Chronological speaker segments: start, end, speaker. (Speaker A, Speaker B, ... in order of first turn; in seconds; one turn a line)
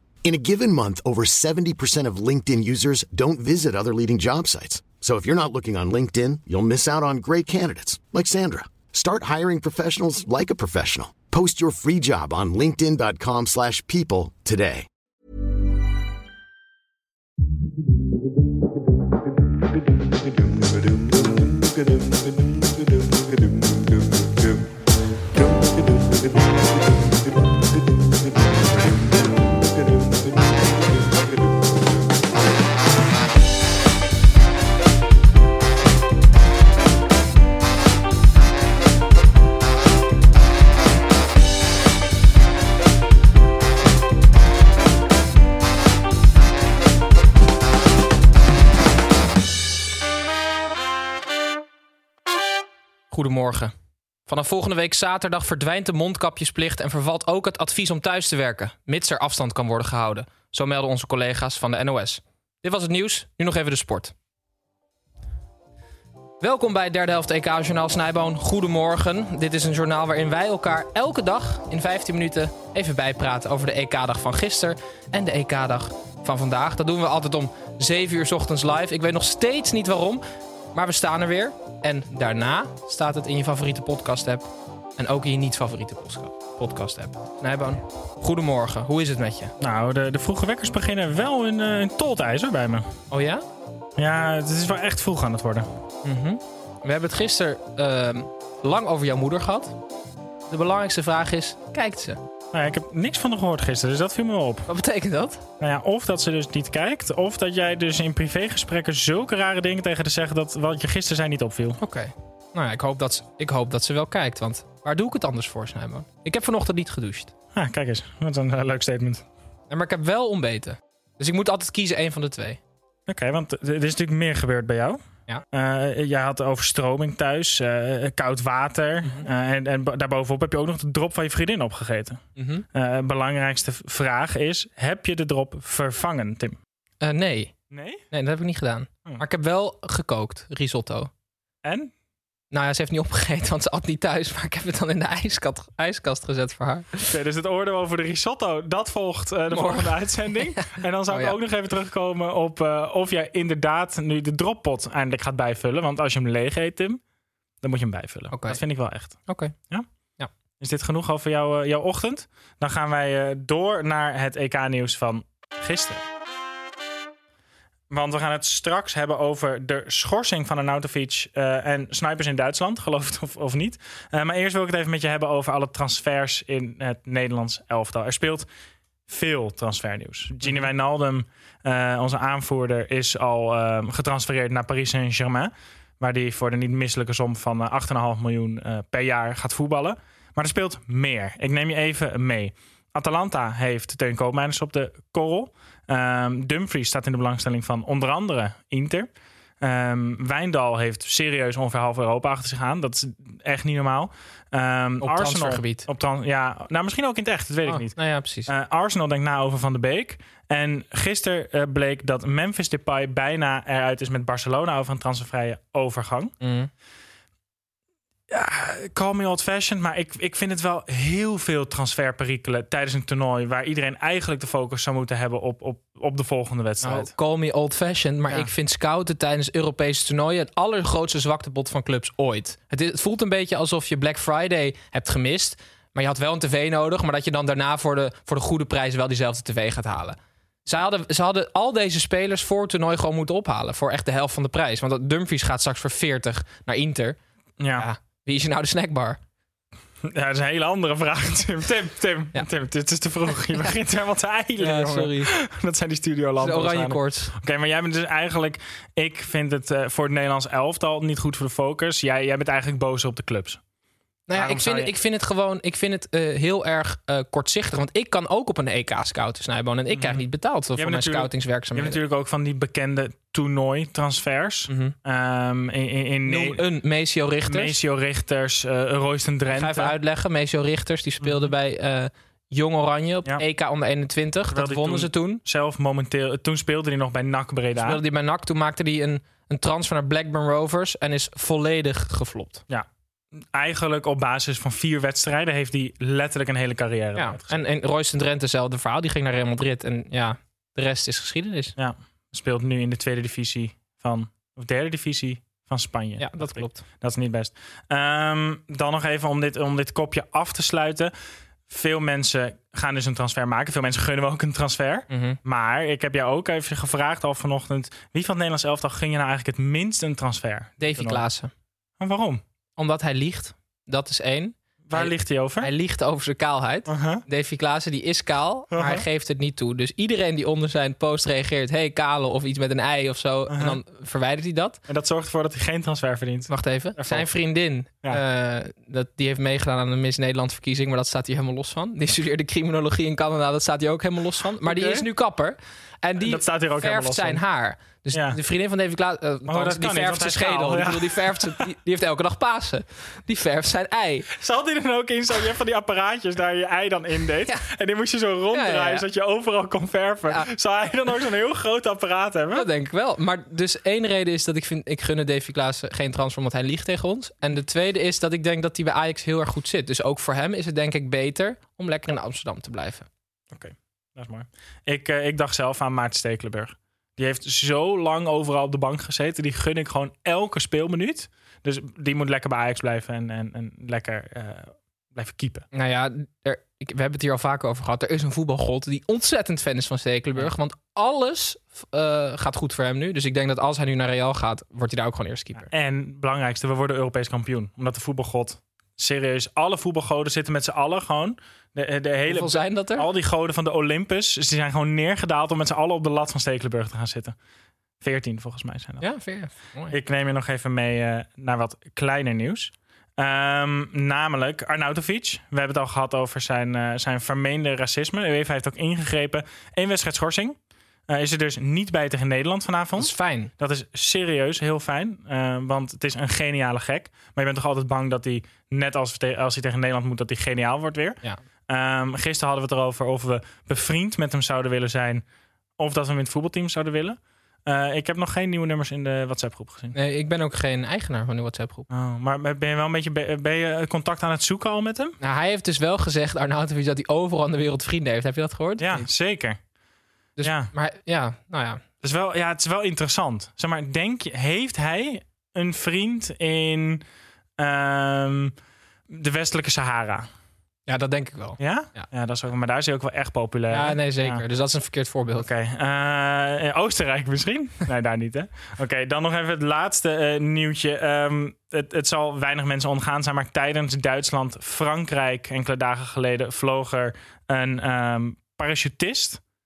Speaker A: 0.2-14.9
Speaker B: 53.1-53.7
Speaker B: 54.3-64.1
Speaker B: 66.4-80.2
Speaker B: 80.7-89.5
Speaker C: 89.6-92.9
Speaker B: 93.1-93.4
Speaker C: 94.0-95.7
Speaker B: 96.0-99.8
Speaker B: 100.5-102.2
Speaker C: 102.5-104.7
Speaker B: 104.7-105.4
Speaker C: 105.6-111.8
Speaker B: 111.8-117.3
Speaker C: 117.5-119.2
Speaker B: 119.7-122.6
Speaker C: 123.1-125.0
Speaker C: 125.5-132.2
Speaker B: 132.3-132.6
Speaker C: 132.7-136.6
Speaker B: 137.0-137.5
Speaker C: 137.7-138.0
Speaker B: 138.1-141.1
Speaker C: 141.6-141.9
Speaker B: 142.5-147.1
Speaker C: 147.1-157.0
Speaker B: 149.5-151.3
Speaker C: 157.6-159.2
Speaker B: 158.3-158.6
Speaker B: 159.3-159.5
Speaker C: 160.6-166.0
Speaker C: 167.9-178.5
Speaker C: 179.1-199.1
Speaker C: 199.6-207.9
Speaker B: 205.0-205.9
Speaker B: 207.6-208.5
Speaker C: 208.5-216.3
Speaker B: 216.4-216.7
Speaker C: 218.3-227.1
Speaker B: 226.8-247.2
Speaker C: 247.6-247.9
Speaker B: 247.7-249.2
Speaker C: 250.0-263.6
Speaker B: 254.6-255.3
Speaker B: 256.4-257.3
Speaker B: 264.3-272.0
Speaker C: 264.3-264.9
Speaker C: 269.9-276.6
Speaker B: 274.7-274.9
Speaker B: 276.2-277.8
Speaker C: 277.5-280.0
Speaker B: 279.5-285.4
Speaker C: 281.2-281.5
Speaker C: 284.5-288.0
Speaker B: 287.8-292.6
Speaker C: 293.5-297.6
Speaker B: 297.1-301.7
Speaker C: 301.8-311.1
Speaker B: 306.2-306.8
Speaker C: 311.7-321.3
Speaker B: 315.1-315.4
Speaker B: 320.8-321.5
Speaker C: 322.0-322.4
Speaker B: 322.8-334.8
Speaker C: 324.9-325.7
Speaker C: 326.9-327.2
Speaker C: 328.7-329.0
Speaker C: 333.5-333.8
Speaker C: 334.9-337.3
Speaker B: 336.5-354.3
Speaker C: 344.6-345.1
Speaker C: 346.2-347.4
Speaker C: 348.1-348.4
Speaker C: 349.4-351.6
Speaker C: 354.4-362.7
Speaker B: 358.5-359.1
Speaker B: 362.5-373.1
Speaker C: 373.5-385.7
Speaker B: 385.7-395.7
Speaker C: 395.7-407.3
Speaker B: 402.3-403.1
Speaker C: 408.0-409.1
Speaker B: 409.0-409.9
Speaker C: 409.9-420.6
Speaker C: 421.1-435.2
Speaker B: 423.0-423.5
Speaker C: 435.8-439.9
Speaker B: 439.9-441.9
Speaker C: 441.9-445.2
Speaker B: 445.2-449.1
Speaker C: 448.8-449.6
Speaker B: 450.4-451.8
Speaker C: 450.4-450.7
Speaker C: 452.0-457.0
Speaker C: 457.6-458.5
Speaker C: 459.1-460.3
Speaker B: 460.9-462.1
Speaker C: 461.6-464.4
Speaker B: 463.7-465.5
Speaker C: 465.4-479.4